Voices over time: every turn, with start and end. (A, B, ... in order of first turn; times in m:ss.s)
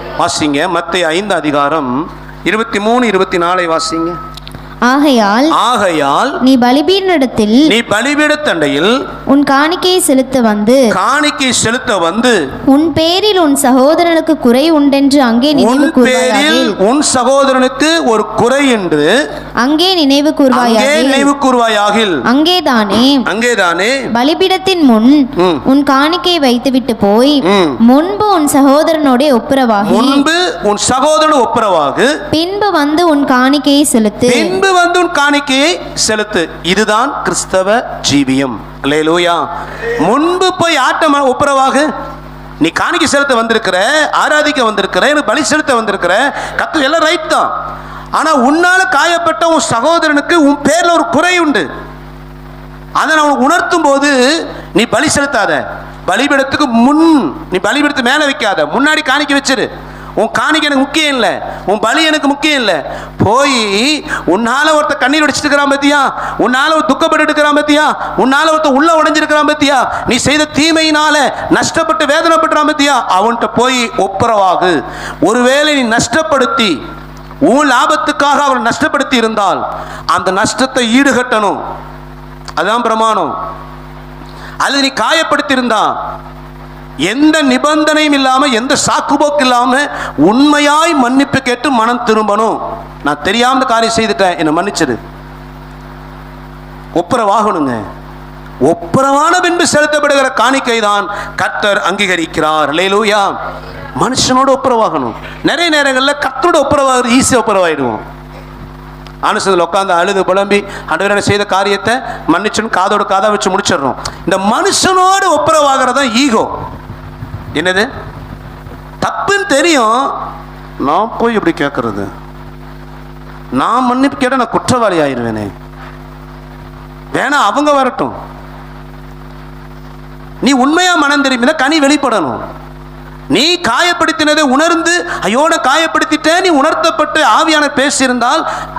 0:00.2-0:04.2 A
0:04.9-0:05.5 B
0:05.5-0:06.4 A
0:06.4-0:07.6 B
0:07.7-0:09.0 A
0:09.3-0:10.9 B
0:10.9-0:12.4 A
0:12.7-0:16.8 B
0:15.5-0:19.1 A
0:19.6-0:21.3 B
0:20.5-0:22.2 A
0:22.3-0:23.2 B
0:23.3-0:24.0 A
0:24.1-0:30.2 B
0:25.4-0:25.6 A
0:27.4-0:27.8 A
0:29.8-0:32.1 A
0:32.3-0:34.6 B
0:34.3-0:39.4 A
0:40.0-0:41.9 A
0:42.6-0:47.5 A
0:48.2-0:51.7 A
0:53.0-1:16.8 A
1:17.5-1:21.6 A
1:22.6-1:23.3 A
1:24.6-1:25.9 A
1:27.1-1:35.0 A
1:37.0-1:37.8 A
1:38.7-1:43.3 A
1:44.0-1:48.0 A
1:49.2-1:56.5 A
1:57.5-1:57.9 A
1:59.0-2:00.1 A
2:00.8-2:02.1 A
2:03.5-2:05.5 A
2:07.1-2:08.2 A
2:10.4-2:12.4 A
2:13.3-2:18.4 A